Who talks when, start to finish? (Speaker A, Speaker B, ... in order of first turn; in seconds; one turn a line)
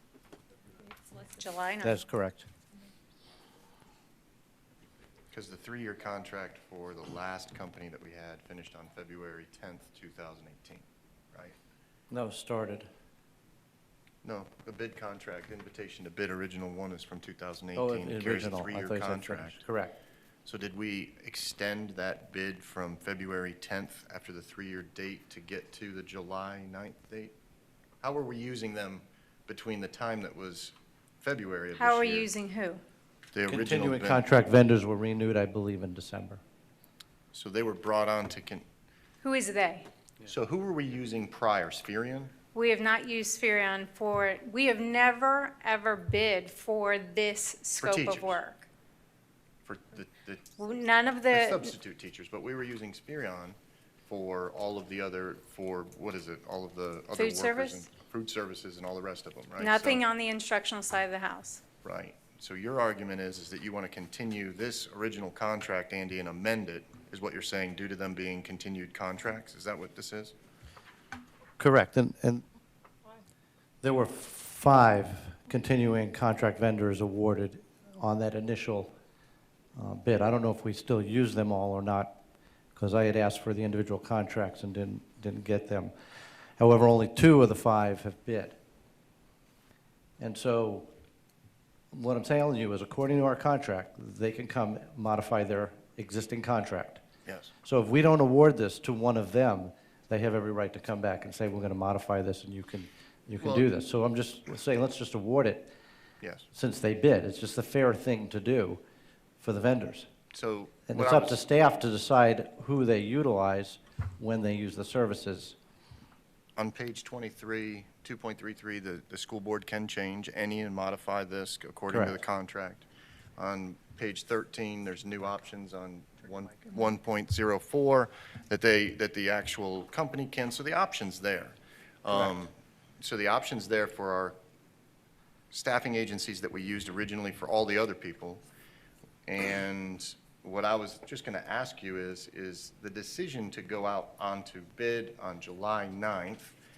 Speaker A: 1.3-2.0
Speaker B: 1.8-2.5
Speaker C: 5.3-11.6
Speaker B: 12.1-12.9
Speaker C: 14.2-19.6
Speaker B: 17.8-19.9
Speaker C: 20.5-27.4
Speaker C: 28.0-32.3
Speaker A: 31.8-32.8
Speaker C: 33.3-34.2
Speaker B: 33.5-36.4
Speaker C: 37.3-38.6
Speaker A: 39.2-39.9
Speaker C: 40.2-42.4
Speaker A: 42.5-48.7
Speaker C: 47.8-48.4
Speaker C: 49.6-50.6
Speaker A: 50.6-51.7
Speaker C: 51.3-60.0
Speaker A: 57.1-57.9
Speaker A: 59.6-61.6
Speaker C: 61.8-70.3
Speaker B: 71.6-72.4
Speaker B: 73.8-78.9
Speaker B: 79.8-82.2
Speaker B: 82.8-85.9
Speaker B: 86.6-88.6
Speaker B: 90.2-90.9
Speaker B: 91.9-97.0
Speaker C: 97.3-97.5
Speaker B: 97.6-105.7
Speaker C: 103.4-103.7
Speaker B: 106.5-108.8
Speaker B: 109.4-110.1
Speaker C: 110.3-111.4
Speaker B: 110.9-115.6
Speaker C: 116.6-122.8
Speaker B: 121.9-122.2
Speaker C: 123.4-134.4
Speaker C: 135.5-138.4
Speaker C: 139.3-146.6